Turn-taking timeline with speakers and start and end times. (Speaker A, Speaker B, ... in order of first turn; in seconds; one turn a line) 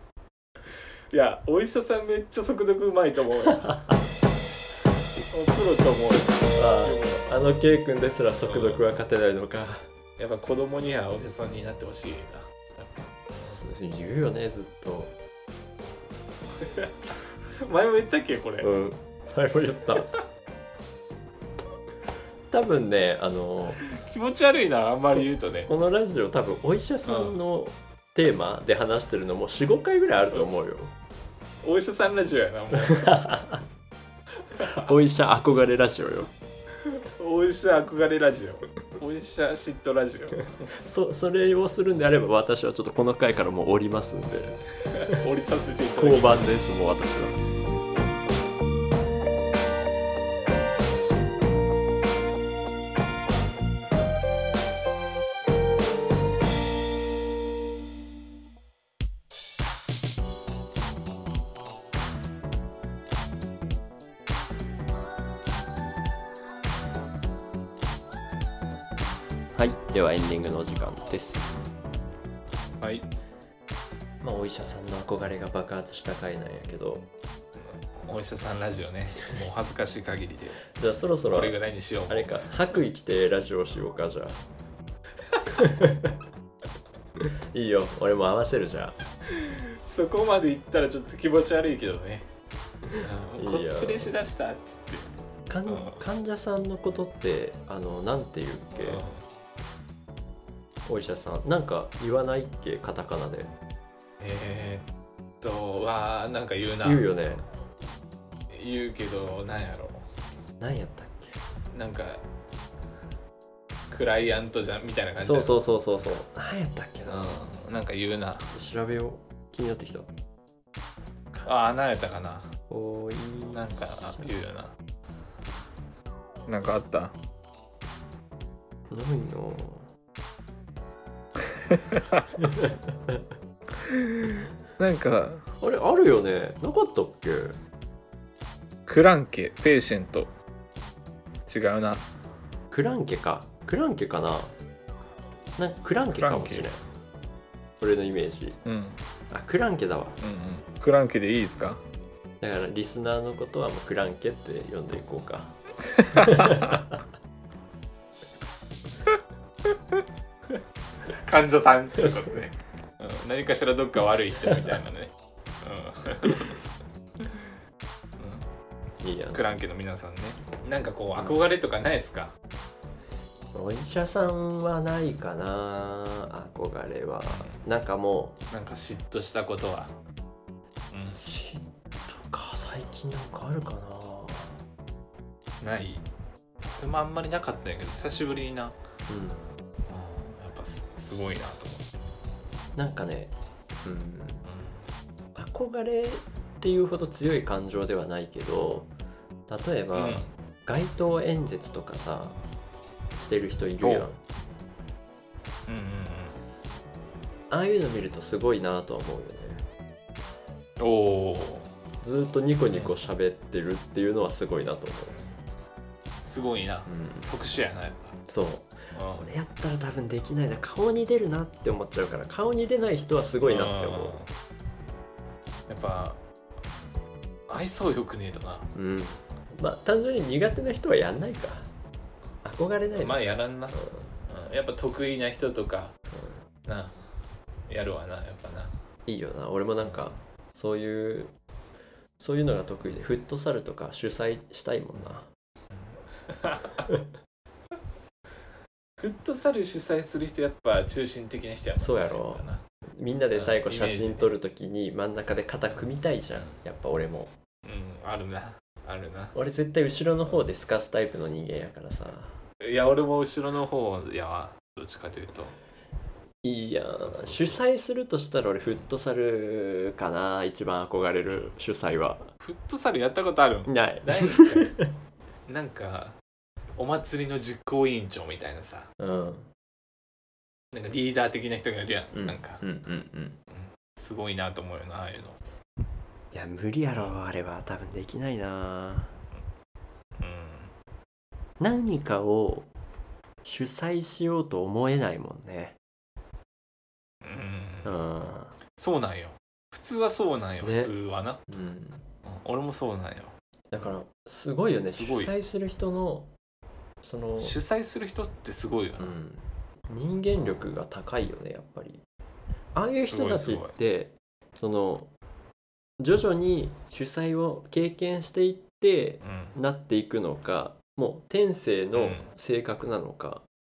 Speaker A: 1.1-3.7
Speaker B: 3.5-3.9
Speaker A: 5.3-7.3
Speaker B: 6.5-9.9
Speaker A: 8.4-8.8
Speaker A: 10.2-12.9
Speaker B: 13.4-15.1
Speaker A: 16.4-18.7
Speaker B: 18.6-20.1
Speaker B: 22.5-23.8
Speaker A: 23.8-25.7
Speaker B: 25.7-30.9
Speaker A: 27.1-27.4
Speaker A: 31.6-33.1
Speaker B: 32.7-33.6
Speaker A: 34.5-34.9
Speaker B: 34.6-36.3
Speaker A: 36.8-40.7
Speaker B: 40.7-45.2
Speaker A: 44.9-46.5
Speaker B: 45.9-47.4
Speaker B: 69.5-71.5
Speaker A: 72.8-73.1
Speaker B: 74.2-77.1
Speaker A: 77.8-80.6
Speaker B: 80.7-84.4
Speaker A: 81.3-82.7
Speaker B: 85.5-86.2
Speaker B: 87.2-89.0
Speaker A: 89.3-92.2
Speaker A: 93.0-95.1
Speaker B: 93.4-94.2
Speaker B: 95.5-99.0
Speaker A: 95.7-96.0
Speaker A: 98.8-99.2
Speaker B: 100.8-103.5
Speaker A: 104.2-104.9
Speaker A: 105.4-107.1
Speaker B: 106.8-107.4
Speaker A: 108.5-110.0
Speaker B: 110.6-111.4
Speaker A: 111.7-112.2
Speaker A: 113.9-115.6
Speaker B: 115.2-117.5
Speaker A: 117.0-118.5
Speaker B: 118.5-120.1
Speaker A: 121.4-122.5
Speaker B: 122.7-124.3
Speaker A: 123.5-124.7
Speaker A: 126.5-127.1
Speaker B: 128.9-129.9
Speaker A: 131.7-132.3
Speaker B: 132.4-133.2
Speaker A: 133.8-135.4
Speaker B: 135.6-137.6
Speaker A: 138.9-140.3
Speaker A: 141.5-142.1
Speaker B: 142.7-144.5
Speaker B: 145.6-146.8
Speaker A: 146.1-146.7
Speaker B: 147.8-148.6
Speaker A: 148.6-149.0
Speaker B: 149.3-150.2
Speaker A: 150.2-151.8
Speaker B: 152.4-155.6
Speaker A: 155.9-156.8
Speaker B: 156.1-156.9
Speaker A: 161.1-166.6
Speaker B: 164.5-164.8
Speaker A: 168.2-168.4
Speaker B: 169.0-169.5
Speaker A: 169.3-172.3
Speaker B: 173.5-178.3
Speaker A: 177.3-177.6
Speaker A: 178.5-179.9
Speaker A: 180.9-181.2
Speaker B: 181.1-184.6
Speaker A: 185.6-186.0
Speaker A: 186.8-188.7
Speaker B: 189.1-189.4
Speaker A: 189.9-191.9
Speaker B: 192.8-194.4
Speaker A: 194.4-194.8
Speaker B: 195.3-198.9
Speaker B: 199.5-202.3
Speaker A: 199.9-200.3
Speaker B: 203.2-204.2
Speaker A: 203.8-204.1
Speaker A: 205.7-206.4
Speaker B: 207.5-209.6
Speaker A: 210.8-211.7
Speaker B: 212.0-215.2
Speaker A: 212.7-212.9
Speaker A: 216.2-218.1
Speaker B: 216.9-217.3
Speaker B: 218.2-224.2
Speaker A: 218.9-219.3
Speaker A: 223.4-224.3
Speaker A: 225.7-226.2
Speaker A: 227.5-228.7
Speaker B: 228.7-231.7
Speaker B: 232.4-234.1
Speaker A: 232.9-235.9
Speaker B: 236.1-236.4
Speaker A: 236.7-236.9
Speaker A: 237.7-238.7
Speaker B: 239.1-241.3
Speaker A: 239.8-240.2
Speaker B: 242.2-245.3
Speaker A: 245.7-246.9
Speaker A: 249.0-252.6
Speaker B: 251.8-257.3
Speaker A: 253.3-254.3
Speaker A: 255.7-256.6
Speaker A: 257.6-259.3
Speaker B: 259.3-262.4
Speaker A: 262.6-265.5
Speaker B: 266.4-272.3
Speaker A: 267.0-267.6
Speaker A: 271.3-271.5
Speaker A: 272.4-274.8
Speaker B: 273.6-274.9
Speaker A: 275.5-276.2
Speaker A: 276.8-278.9
Speaker B: 279.0-279.5
Speaker A: 280.7-282.6
Speaker B: 282.1-283.4
Speaker A: 283.5-285.4
Speaker B: 286.3-289.1
Speaker A: 290.2-290.7
Speaker B: 291.6-292.7
Speaker B: 293.4-295.8
Speaker A: 297.2-298.0
Speaker B: 297.8-298.6
Speaker A: 298.8-301.4
Speaker B: 300.6-300.9
Speaker B: 301.5-302.0
Speaker A: 302.2-303.9
Speaker B: 303.7-306.3
Speaker A: 304.9-305.3
Speaker B: 307.0-307.6
Speaker A: 307.4-309.2
Speaker B: 309.0-312.0
Speaker A: 310.3-310.7
Speaker B: 312.7-315.1
Speaker A: 313.0-313.8
Speaker B: 316.0-323.4
Speaker A: 319.2-319.6
Speaker A: 321.9-322.3